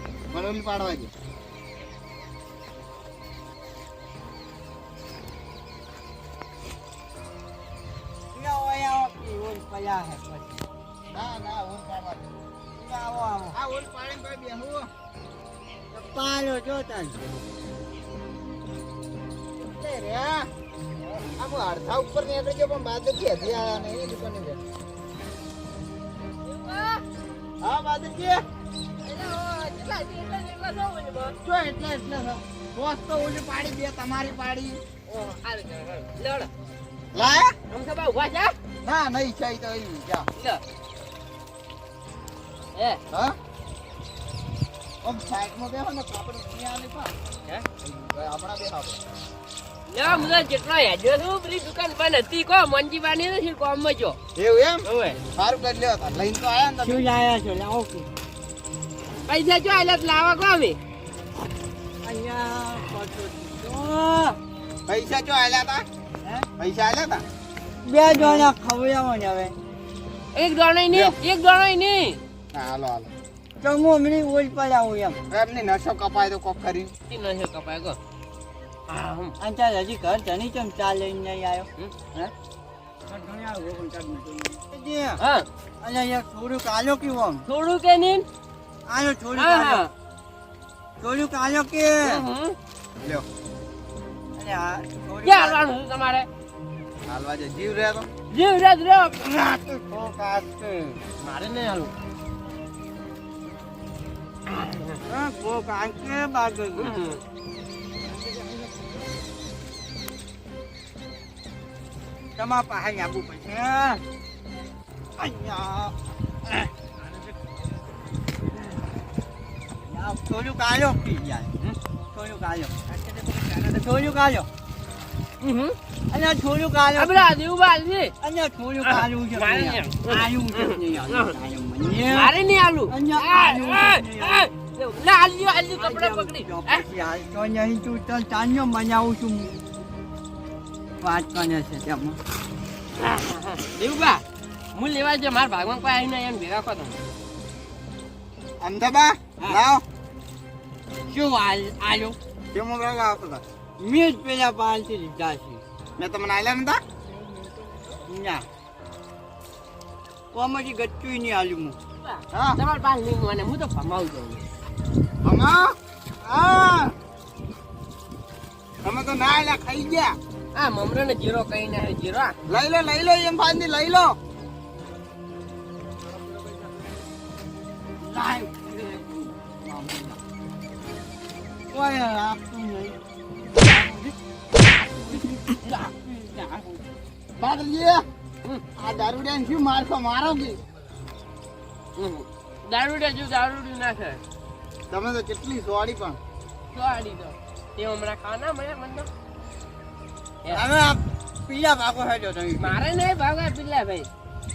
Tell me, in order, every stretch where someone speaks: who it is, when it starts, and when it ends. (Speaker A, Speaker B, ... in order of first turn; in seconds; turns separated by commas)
Speaker A: 0.3-1.1, Speaker B: 8.3-10.6, Speaker A: 11.1-12.3, Speaker B: 12.8-13.6, Speaker A: 13.5-14.9, Speaker B: 15.9-17.2, Speaker A: 19.6-20.5, Speaker A: 21.2-24.6, Speaker C: 26.5-27.0, Speaker A: 27.6-28.4, Speaker C: 29.0-31.4, Speaker A: 31.4-34.8, Speaker C: 35.1-36.5, Speaker A: 37.1-37.6, Speaker C: 37.7-38.5, Speaker A: 38.8-40.3, Speaker C: 40.4-40.6, Speaker C: 42.8-43.0, Speaker A: 43.1-43.4, Speaker A: 45.0-47.2, Speaker A: 47.8-49.0, Speaker C: 49.9-54.2, Speaker A: 54.4-57.0, Speaker C: 54.9-55.2, Speaker B: 56.8-58.1, Speaker C: 59.2-60.8, Speaker B: 62.0-64.4, Speaker A: 64.9-65.9, Speaker A: 66.6-67.2, Speaker B: 67.8-69.5, Speaker C: 70.3-72.2, Speaker A: 70.9-71.2, Speaker A: 72.5-73.1, Speaker B: 73.6-75.2, Speaker A: 75.3-76.9, Speaker C: 77.1-78.0, Speaker C: 78.9-79.3, Speaker B: 79.4-82.3, Speaker B: 83.1-85.2, Speaker C: 85.2-85.5, Speaker B: 85.8-87.4, Speaker C: 87.5-88.3, Speaker B: 88.9-89.9, Speaker C: 89.4-89.9, Speaker B: 91.0-92.2, Speaker C: 92.0-92.6, Speaker B: 94.4-95.6, Speaker C: 95.2-96.3, Speaker A: 97.1-98.1, Speaker C: 98.3-99.2, Speaker B: 99.2-101.0, Speaker C: 101.2-101.9, Speaker C: 104.5-105.0, Speaker B: 105.1-107.0, Speaker C: 106.8-107.2, Speaker B: 112.4-114.0, Speaker B: 115.2-116.0, Speaker B: 119.8-124.5, Speaker C: 125.4-125.8, Speaker B: 126.1-127.3, Speaker C: 127.0-128.1, Speaker B: 128.2-132.3, Speaker C: 128.8-131.4, Speaker C: 132.1-136.8, Speaker B: 132.9-134.5, Speaker B: 135.8-139.5, Speaker B: 141.0-142.2, Speaker C: 143.0-144.2, Speaker C: 144.7-147.0, Speaker A: 148.6-149.8, Speaker B: 151.1-152.2, Speaker A: 152.5-153.4, Speaker B: 153.8-155.6, Speaker A: 156.0-156.8, Speaker B: 158.1-158.5, Speaker B: 160.3-161.8, Speaker C: 162.0-164.5, Speaker A: 162.3-162.6, Speaker A: 165.2-166.9, Speaker A: 168.8-170.2, Speaker C: 170.6-172.4, Speaker A: 172.5-174.2, Speaker B: 178.4-180.2, Speaker B: 181.7-183.0, Speaker C: 183.6-183.9, Speaker B: 185.0-185.4, Speaker C: 185.1-186.8, Speaker A: 187.4-188.1, Speaker A: 188.8-190.6, Speaker C: 192.0-194.2, Speaker A: 194.9-196.2, Speaker C: 196.7-199.1, Speaker B: 200.5-202.8, Speaker C: 202.6-204.1